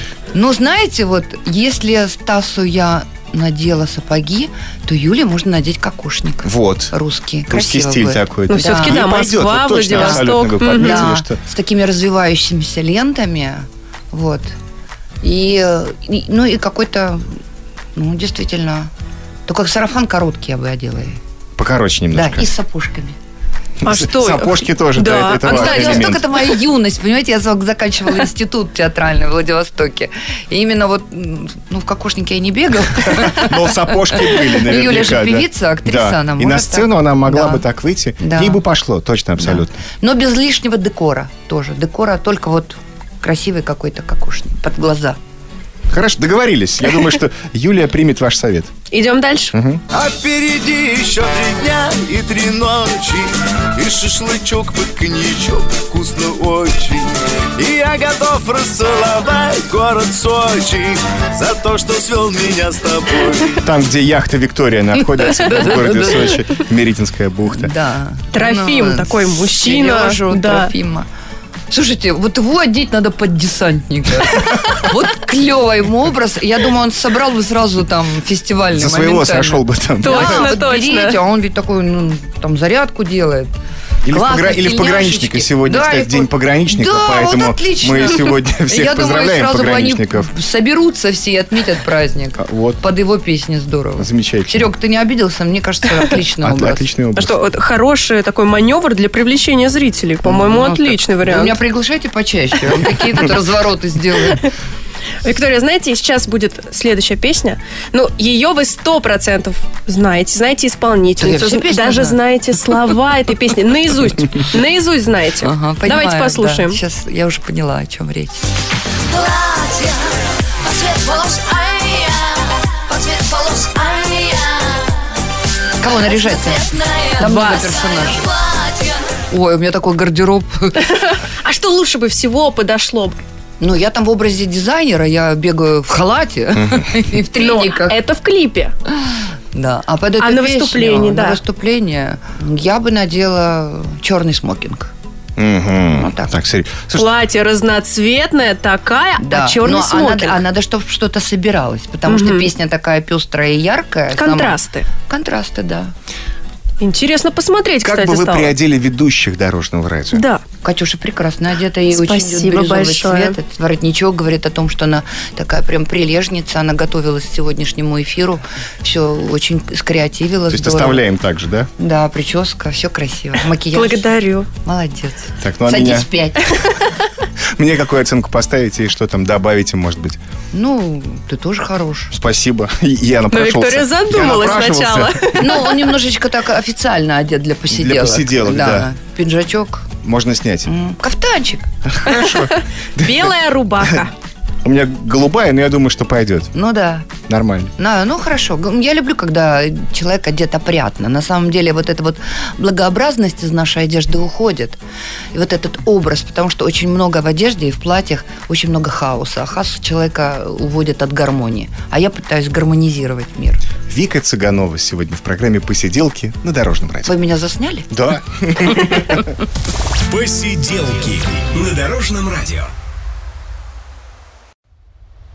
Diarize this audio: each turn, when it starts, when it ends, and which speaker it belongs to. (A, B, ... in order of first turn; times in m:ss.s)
0:00.3-0:09.0 A
0:06.4-0:06.9 B
0:07.5-0:11.4 B
0:08.5-0:11.1 C
0:09.9-0:14.5 A
0:15.2-0:17.4 A
0:17.9-0:18.9 A
0:19.5-0:21.2 A
0:21.6-0:22.5 B
0:22.1-0:23.2 A
0:23.8-0:26.2 B
0:23.8-0:26.2 C
0:25.4-0:37.6 A
0:33.0-0:39.8 B
0:38.2-0:38.6 A
0:39.4-0:45.2 A
0:45.9-0:48.7 B
0:48.9-0:49.5 C
0:49.5-0:49.8 B
0:49.9-1:03.6 D
1:03.6-1:07.7 B
1:05.4-1:06.4 A
1:07.5-1:11.1 A
1:08.3-1:10.7 C
1:11.7-1:23.5 A
1:18.7-1:20.6 B
1:20.0-1:21.2 C
1:24.0-1:30.3 B
1:24.1-1:36.8 A
1:32.4-1:32.8 B
1:34.0-1:34.7 B
1:36.4-1:37.4 B
1:37.2-1:41.6 C
1:40.2-1:44.5 A
1:45.2-1:56.8 C
1:51.2-1:52.2 A
1:55.4-1:58.5 A
1:59.1-2:05.2 E
2:05.8-2:06.6 A
2:05.8-2:09.2 E
2:07.2-2:08.3 A
2:07.2-2:07.8 C
2:09.3-2:11.0 A
2:10.8-2:13.2 C
2:13.6-2:18.0 A
2:17.4-2:18.7 C
2:19.5-2:24.9 A
2:20.2-2:21.4 C
2:25.4-2:27.1 B
2:26.0-2:26.3 A
2:26.9-2:30.4 C
2:29.2-2:35.9 A
2:32.1-2:32.5 C
2:34.1-2:34.9 C
2:36.8-2:38.5 C
2:37.8-2:40.2 B
2:40.1-2:40.4 C
2:40.6-2:51.0 A
2:41.9-2:43.4 C
2:50.5-2:51.7 B
2:51.8-2:56.7 A
2:53.7-2:54.5 C
2:55.4-2:56.0 B
2:57.6-3:00.2 B
3:00.5-3:02.1 A
3:02.1-3:05.4 B
3:03.3-3:05.7 C
3:05.3-3:09.9 A
3:07.7-3:08.9 B
3:10.0-3:10.7 B
3:10.6-3:11.7 A
3:11.8-3:13.3 B
3:12.1-3:14.1 C
3:14.6-3:16.5 B
3:16.5-3:17.1 A
3:17.3-3:17.7 B
3:17.8-3:24.8 A
3:25.3-3:33.6 A
3:33.9-3:37.1 B
3:37.0-3:37.9 A
3:37.9-3:39.3 B
3:40.0-3:42.7 D